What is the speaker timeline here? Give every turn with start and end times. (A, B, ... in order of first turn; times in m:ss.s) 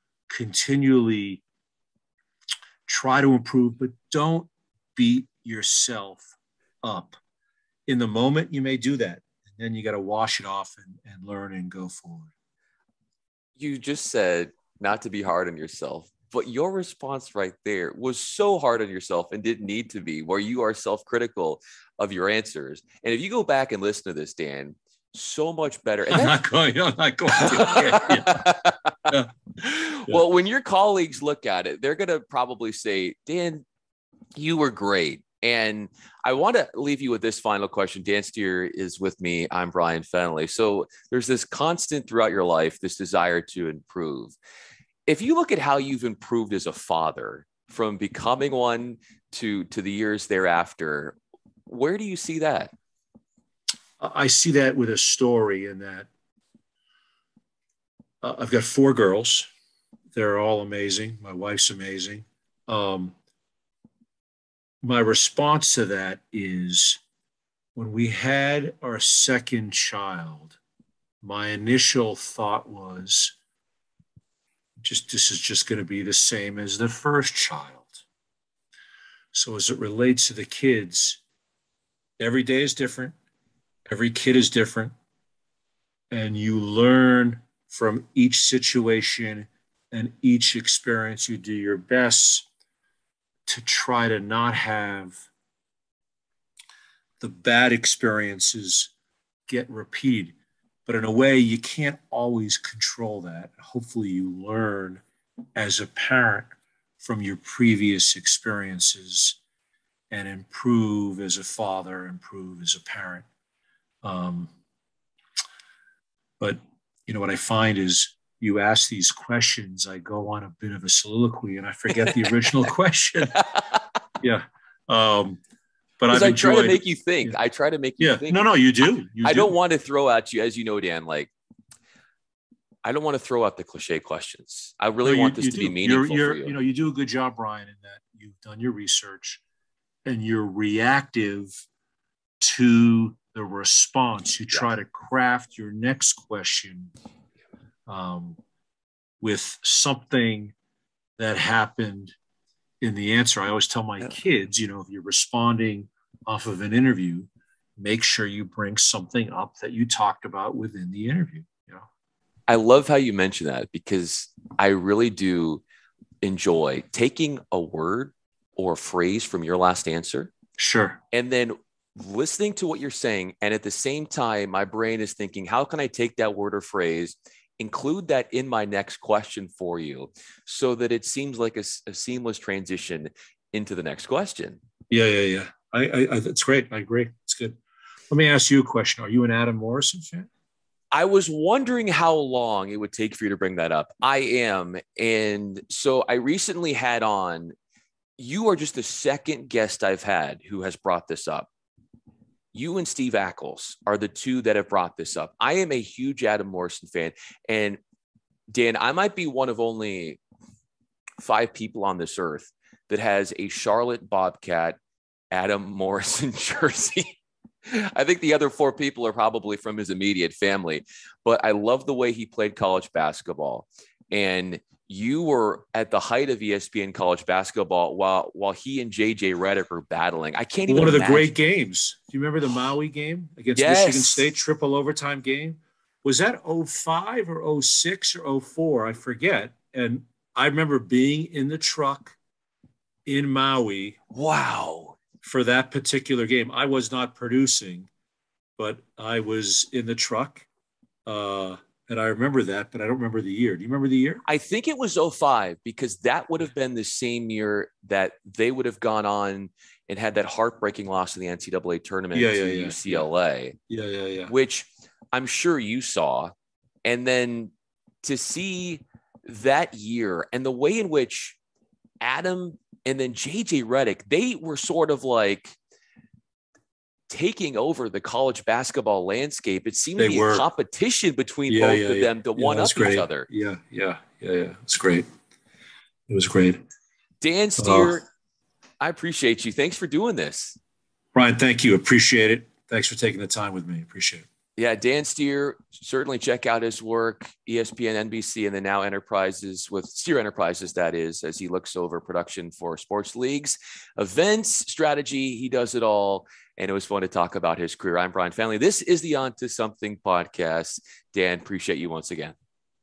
0:00.3-0:01.4 A
0:02.9-0:06.2 A
0:06.8-0:07.2 A
0:07.9-0:12.3 A
0:13.6-0:26.4 B
0:26.1-0:28.5 A
0:27.3-0:33.6 B
0:34.4-0:44.4 B
0:45.1-0:51.2 B
0:51.7-0:52.7 B
0:54.0-0:56.1 A
0:58.2-0:59.5 A
1:00.1-1:03.1 A
1:04.8-1:07.0 A
1:07.7-1:10.6 A
1:11.2-1:13.3 A
1:14.8-1:18.0 A
1:19.3-1:21.2 A
1:22.2-1:23.1 A
1:23.8-1:24.9 A
1:26.1-1:32.4 A
1:33.4-1:35.2 A
1:37.2-1:38.9 A
1:39.5-1:45.0 A
1:45.5-1:49.4 A
1:50.1-1:53.2 A
1:54.0-1:54.5 A
1:56.4-2:03.4 A
2:03.3-2:03.8 B
2:04.2-2:05.4 A
2:06.0-2:07.4 A
2:06.1-2:08.4 B
2:08.0-2:09.5 A
2:09.2-2:11.3 B
2:12.8-2:16.6 B
2:15.0-2:19.4 A
2:20.0-2:21.6 A
2:22.4-2:26.9 A
2:27.9-2:28.4 A
2:29.2-2:30.5 A
2:31.2-2:32.1 A
2:32.8-2:41.9 A
2:42.5-2:45.6 B
2:46.2-2:50.3 B
2:50.6-2:51.0 A
2:51.1-3:04.6 B
3:04.9-3:07.6 A
3:08.1-3:10.3 A
3:10.9-3:17.5 B
3:18.2-3:21.5 B
3:22.5-3:27.8 B
3:28.5-3:30.2 B
3:31.2-3:34.8 B
3:35.3-3:51.3 B
3:50.7-4:02.2 A
3:53.5-3:54.3 B
4:03.0-4:04.0 A
4:04.1-4:05.0 B
4:05.2-4:07.9 A
4:08.6-4:10.5 A
4:11.0-4:14.2 A
4:14.2-4:23.6 B
4:22.1-4:23.1 A
4:23.7-4:24.3 A
4:24.3-4:26.3 B
4:26.8-4:27.5 B
4:28.0-4:31.4 B
4:32.0-4:35.6 B
4:37.1-4:43.3 B
4:40.0-4:40.4 A
4:41.5-4:45.0 A
4:46.1-4:46.6 A
4:47.2-4:48.1 B
4:47.6-4:48.0 A
4:48.8-4:50.6 B
4:51.1-4:54.2 A
4:54.6-5:12.3 B